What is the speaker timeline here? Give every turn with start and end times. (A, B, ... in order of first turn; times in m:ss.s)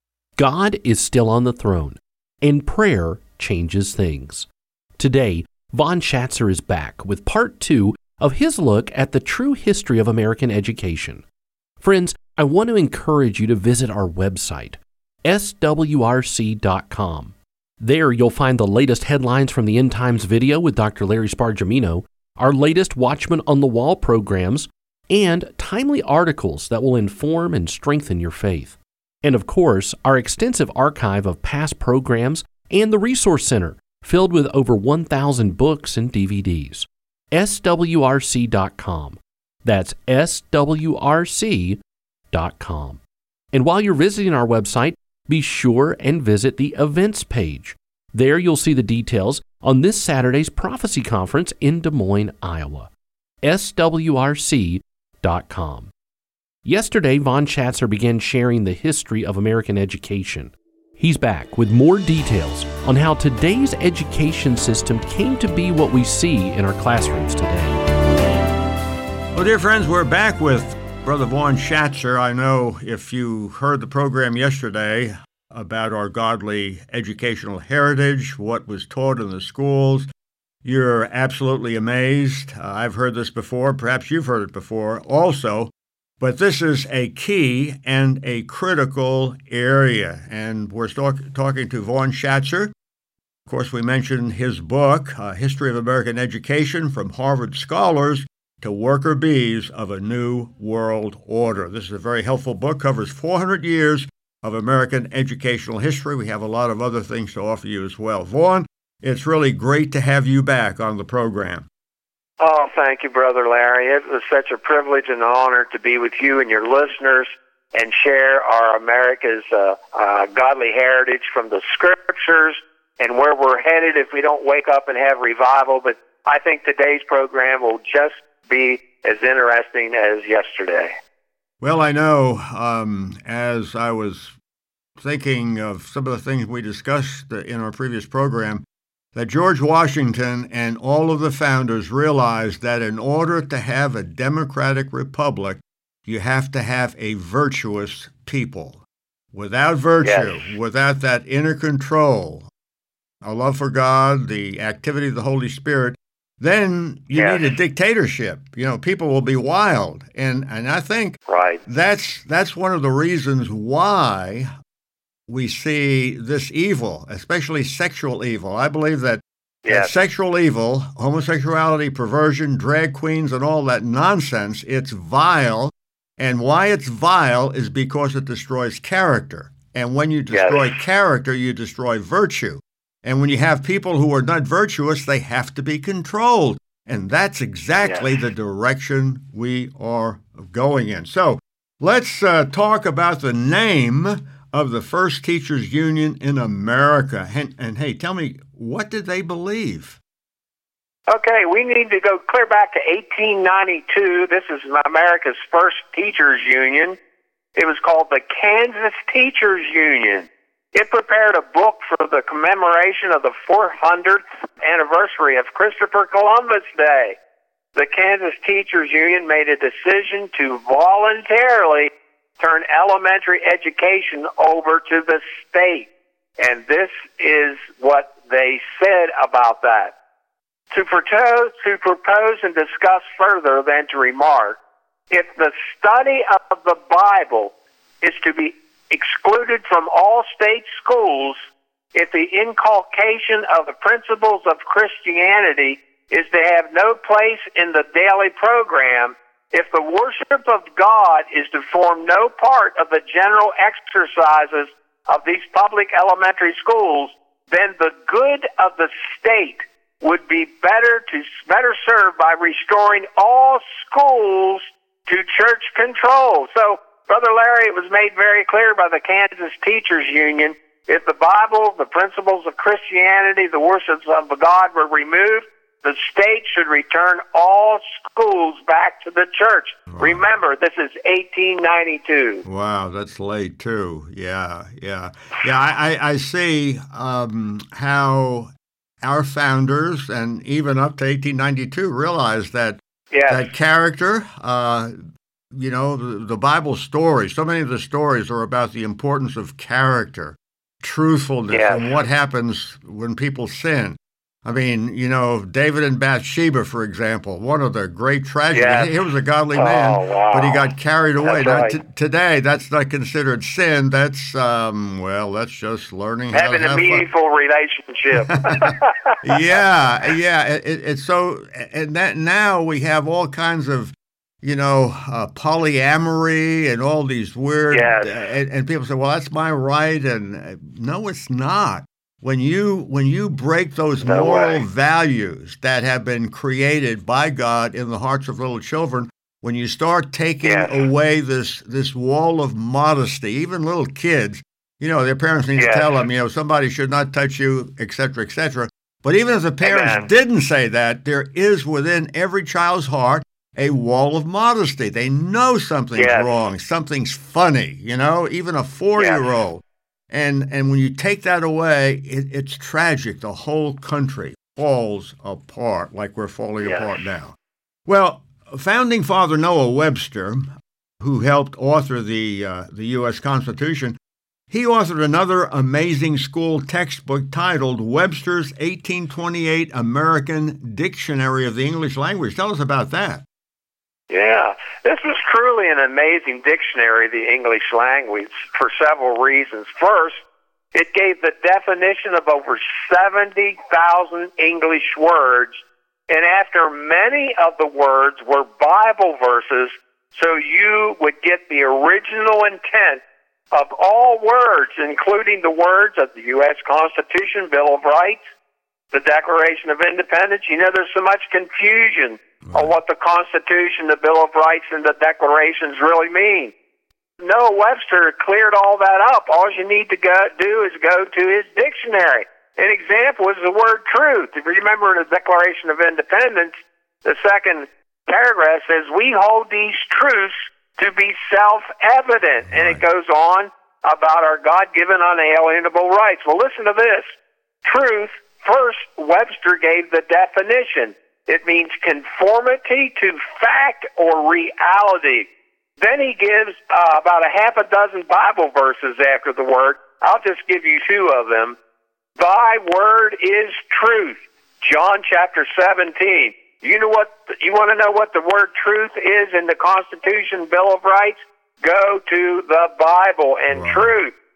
0:00.4-0:04.5 A
0:05.0-0:11.2 A
0:11.8-0:41.8 A
0:42.3-0:43.0 A
0:43.5-0:52.9 A
0:53.4-0:55.9 A
0:56.6-1:07.8 A
1:09.3-1:20.1 B
1:20.6-1:32.7 B
1:33.5-1:51.7 B
1:52.4-2:10.9 C
2:11.6-2:14.4 B
2:15.0-2:18.6 B
2:19.2-2:28.8 B
2:29.3-2:32.5 B
2:30.0-2:30.5 C
2:33.2-2:44.5 B
2:37.2-2:37.5 C
2:41.3-2:41.6 C
2:45.3-3:20.0 B
2:49.6-2:49.9 C
3:00.3-3:00.7 C
3:07.8-3:08.1 C
3:21.1-3:27.0 C
3:27.6-3:37.2 C
3:37.8-3:49.9 C
3:50.7-3:54.6 C
3:55.1-4:01.4 C
4:01.9-4:42.4 C
4:39.9-4:40.2 B
4:42.4-4:48.5 B
4:49.0-4:55.0 B
4:53.1-4:53.5 C
4:55.5-5:17.1 B
5:01.5-5:02.0 C
5:08.5-5:08.9 C
5:09.6-5:10.7 C
5:11.2-5:11.8 C
5:16.3-5:19.2 C
5:18.4-6:07.4 B
5:27.7-5:28.2 C
5:34.0-5:34.6 C
5:40.4-5:40.8 C
5:45.6-5:45.9 C
5:49.6-5:50.1 C
5:56.0-5:56.4 C
5:59.0-5:59.3 C
6:06.6-6:07.0 C
6:07.9-6:10.5 B
6:11.0-6:14.0 B
6:14.5-6:23.2 B
6:24.1-6:30.2 C
6:30.7-6:35.6 C
6:36.1-6:48.2 C
6:48.9-6:56.5 C
6:52.4-6:52.7 B
6:57.2-7:17.1 C
7:12.5-7:12.8 B
7:17.6-7:31.6 C
7:32.2-7:44.1 C
7:43.5-7:43.9 B